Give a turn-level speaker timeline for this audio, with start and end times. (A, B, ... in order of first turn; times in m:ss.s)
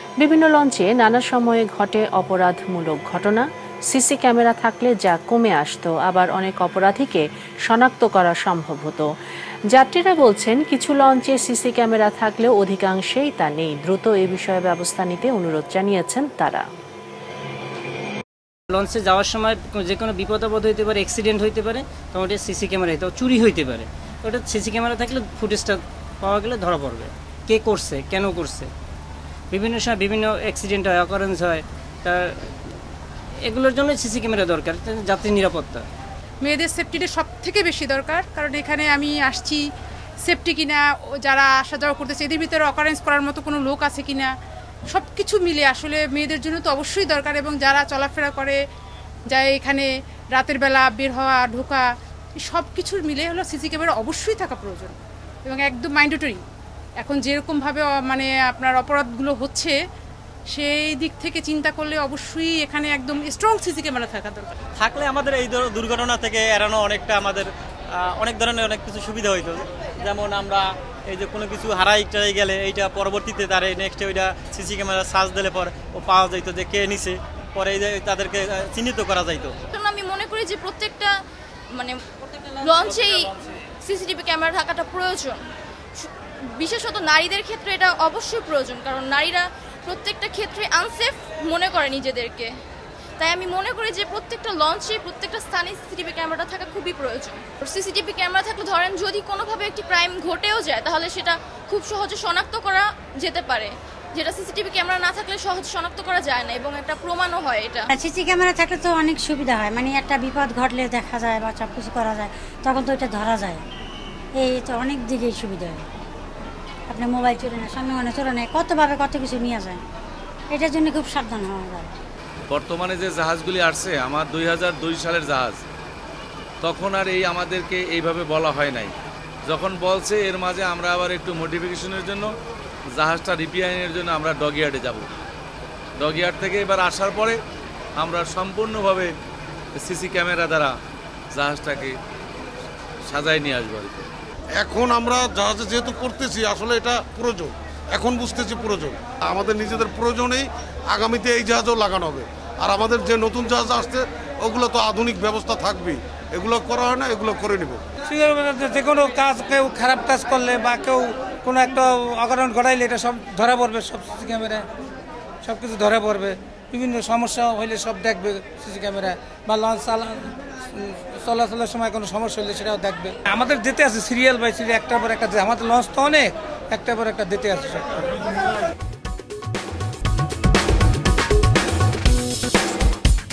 0:00.2-0:09.0 A
0:09.8-0:16.6 A
0:18.7-0:28.7 B
0:29.5-0:32.4 B
0:33.4-0:35.8 B
0:36.4-0:39.6 C
0:40.2-0:44.3 C
0:44.9-0:48.6 C
0:49.3-0:51.9 C
0:52.5-0:56.4 C
0:57.0-0:59.8 C
1:00.5-1:04.6 C
1:04.8-1:19.6 D
1:19.7-1:21.1 E
1:22.6-1:25.4 E
1:26.0-1:32.5 E
1:33.2-1:47.9 E
1:47.9-1:53.6 F
1:54.4-1:55.9 F
1:56.9-1:59.8 F
2:00.5-2:02.0 F
2:02.5-2:05.6 G
2:06.6-2:08.9 G
2:09.5-2:12.3 G
2:13.0-2:15.1 G
2:16.0-2:17.4 G
2:18.0-2:19.1 G
2:19.8-2:20.7 G
2:21.3-2:22.0 G
2:23.1-2:24.1 G
2:24.6-2:37.8 H
2:38.0-2:44.6 I
2:45.4-2:58.0 I